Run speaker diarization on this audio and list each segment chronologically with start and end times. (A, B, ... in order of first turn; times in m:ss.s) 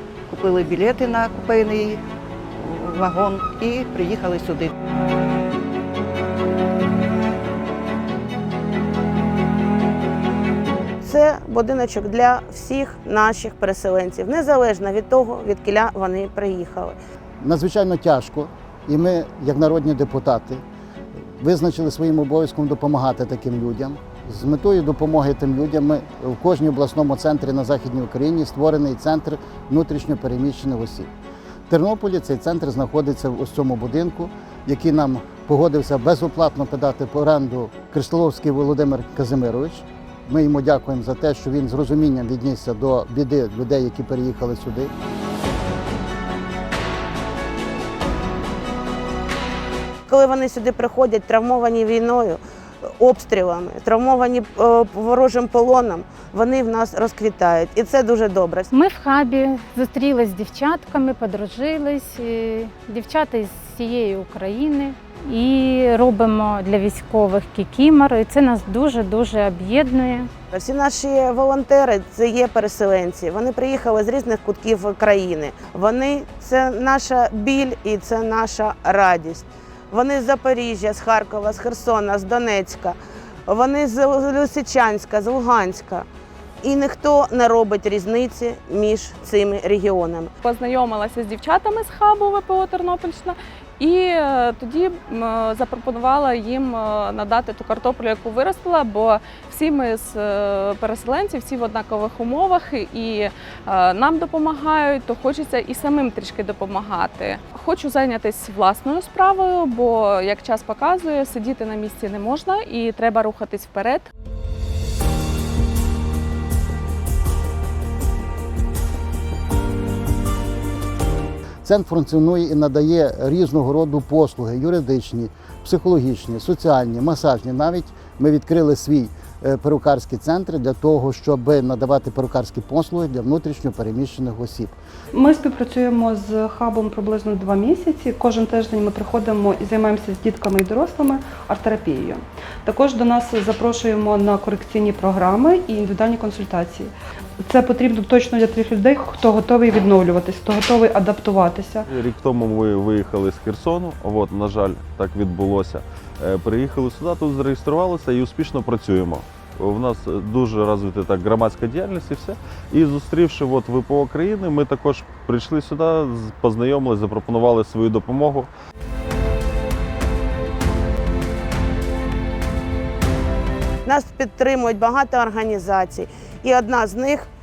0:00.3-0:02.0 A
0:02.6-0:04.7 A
0:11.0-0:17.0 B
0:17.4-0:20.6 C
0:21.4-0:31.1 C
0:31.7-0:44.9 C
0:50.1-0:52.4 B
0:53.0-0:58.7 B
0:58.7-1:10.3 D
1:10.5-1:26.1 B
1:26.6-1:30.3 B
1:30.4-1:54.1 E
2:01.6-2:14.8 C
2:15.1-2:31.8 F
2:31.9-2:48.5 G
2:53.9-2:57.3 B